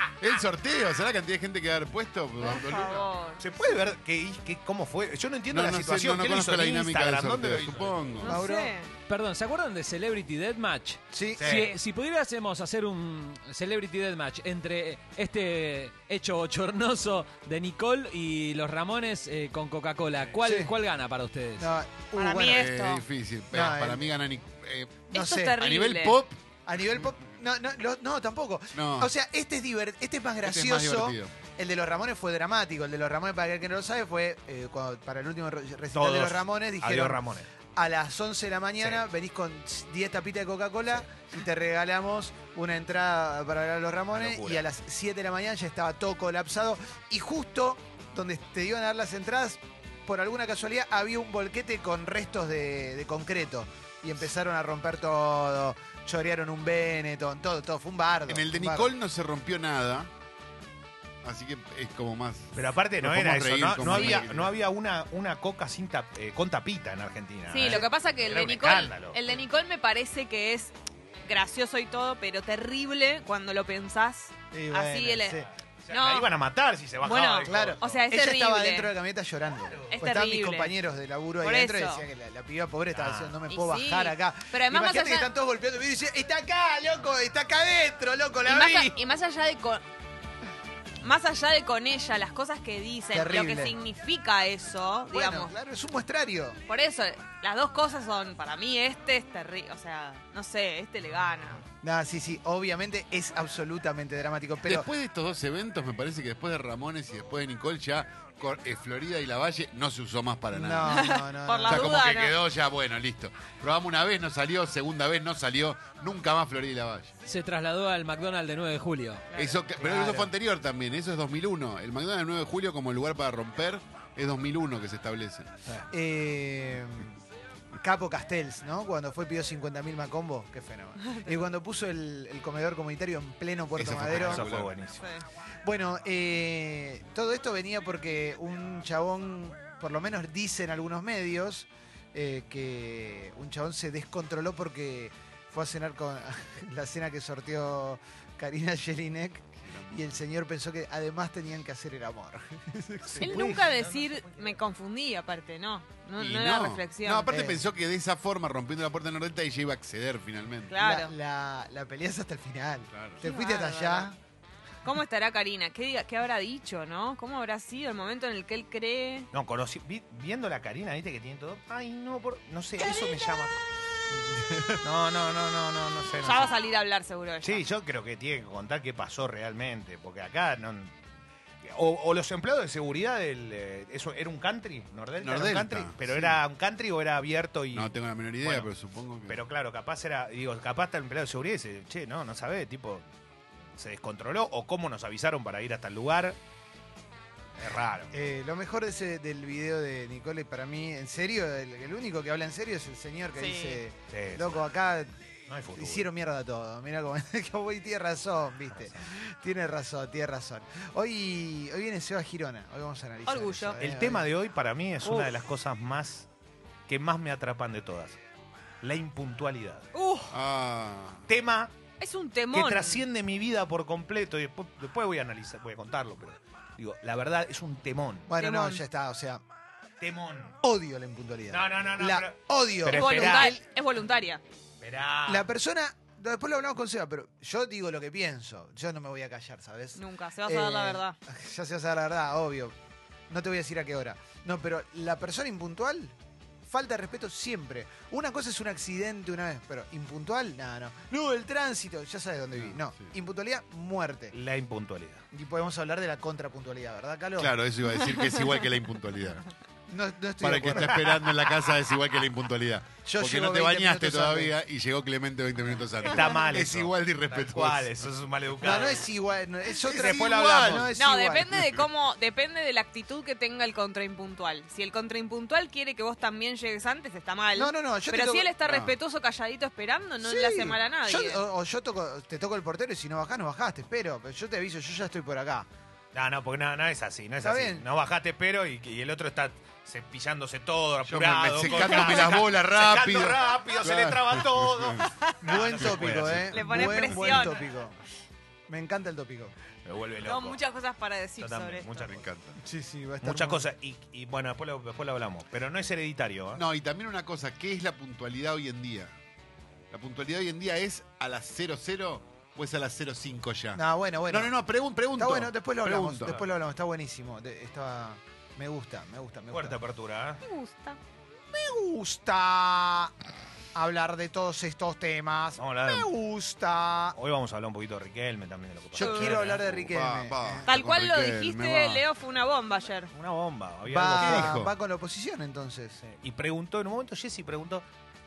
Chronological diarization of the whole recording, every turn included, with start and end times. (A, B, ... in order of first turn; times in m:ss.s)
0:00.2-0:03.1 A
0:02.4-0:03.4 B
0:03.4-0:08.0 C
0:05.5-0:08.4 A
0:08.2-0:08.9 B
0:08.2-0:08.7 D
0:09.1-0:21.7 E
0:11.1-0:11.6 D
0:11.4-0:11.7 C
0:20.4-0:20.7 D
0:21.6-0:22.7 D
0:22.2-0:23.0 B
0:22.5-0:26.4 A
0:23.5-0:24.1 D
0:25.1-0:26.2 B
0:25.1-0:25.6 D
0:26.6-0:37.2 D
0:28.7-0:29.1 A
0:30.4-0:31.3 A
0:35.9-0:37.5 C
0:37.7-0:58.9 D
0:44.1-0:44.6 C
0:58.3-1:00.1 A
1:01.2-1:04.6 A
1:02.5-1:09.2 C
1:03.9-1:04.2 B
1:07.5-1:10.7 B
1:11.2-1:16.3 B
1:14.5-1:15.5 D
1:15.8-1:18.0 C
1:17.0-1:18.9 B
1:17.5-1:28.9 D
1:19.9-1:20.7 B
1:21.4-1:22.0 B
1:22.9-1:23.4 C
1:23.5-1:25.3 B
1:28.4-1:29.8 B
1:31.0-1:35.5 B
1:33.1-1:33.7 D
1:35.1-1:36.6 D
1:36.7-1:41.6 B
1:41.8-1:44.9 D
1:44.6-1:51.1 A
1:50.5-1:51.9 D
1:50.9-1:52.4 B
1:51.7-1:57.2 A
1:57.2-1:59.3 E
1:59.3-1:59.6 B
1:59.4-2:05.5 A
1:59.8-2:00.3 C
2:05.9-2:07.2 D
2:07.8-2:14.4 D
2:11.0-2:11.3 B
2:13.7-2:14.8 A
2:14.1-2:15.0 C
2:15.0-2:15.3 B
2:15.6-2:33.6 D
2:29.6-2:30.1 A
2:33.1-2:34.6 C
2:33.2-2:37.3 B
2:36.2-2:40.8 A
2:37.3-2:37.6 D
2:40.7-2:41.1 B
2:40.8-2:44.2 D
2:42.9-2:43.2 A
2:43.2-2:44.1 B
2:44.8-2:49.3 B
2:49.3-2:53.6 C
2:54.8-2:56.5 C
2:56.2-2:57.6 B
2:57.4-3:00.9 C
3:01.6-3:08.7 C
3:05.2-3:06.4 A
3:07.7-3:09.4 A
3:09.3-3:13.0 C
3:13.8-3:16.4 C
3:17.6-3:18.1 C
3:18.1-3:25.1 D
3:23.4-3:23.8 B
3:24.1-3:24.6 C
3:25.5-3:26.1 C
3:25.8-3:34.2 D
3:28.7-3:29.1 C
3:33.2-3:33.8 B
3:33.8-3:36.3 C
3:35.0-3:35.3 B
3:36.9-3:38.2 C
3:38.8-3:39.9 C
3:39.9-3:40.3 B
3:40.3-3:41.2 A
3:41.3-3:41.7 C
3:42.0-3:43.0 B
3:42.5-3:48.3 C
3:48.3-3:49.4 D
3:48.4-3:48.8 B
3:50.0-3:50.6 C
3:50.6-3:53.6 D
3:51.5-3:53.6 C
3:52.9-3:54.4 B
3:54.8-3:55.5 C
3:55.3-4:02.7 D
3:59.9-4:01.2 B
4:03.3-4:06.1 D
4:06.7-4:14.3 D
4:12.5-4:13.1 A
4:14.3-4:15.2 C
4:15.3-4:17.5 D
4:17.4-4:19.5 A
4:19.9-4:21.0 D
4:20.4-4:28.0 A
4:20.7-4:21.1 C
4:23.0-4:24.5 D
4:26.0-4:29.1 C
4:28.6-4:31.5 D
4:29.8-4:30.9 C
4:29.9-4:30.9 A
4:31.0-4:41.4 B
4:37.5-4:38.5 D
4:38.6-4:38.9 A
4:40.2-4:45.7 D
4:46.1-4:56.6 C
4:47.4-4:47.8 D
4:51.0-4:55.0 A
4:55.4-4:58.0 D
4:55.9-4:56.4 A
4:56.5-4:57.6 B
4:58.7-4:59.5 D
4:59.8-5:00.6 C
5:00.2-5:02.1 B
5:01.4-5:02.2 C
5:02.0-5:02.6 A
5:02.6-5:03.6 D
5:03.2-5:06.6 C
5:06.5-5:09.1 A
5:09.9-5:16.4 A
5:13.8-5:14.5 D
5:15.2-5:19.8 D
5:19.5-5:20.4 C
5:20.4-5:21.0 B
5:21.5-5:23.1 D
5:23.7-5:27.1 D
5:25.6-5:26.1 C
5:27.1-5:29.6 C
5:28.9-5:30.7 D
5:29.0-5:29.3 B
5:29.0-5:32.0 A
5:30.6-5:33.1 B
5:33.1-5:34.6 C
5:33.9-5:36.0 D
5:34.2-5:34.7 A
5:36.0-5:37.8 C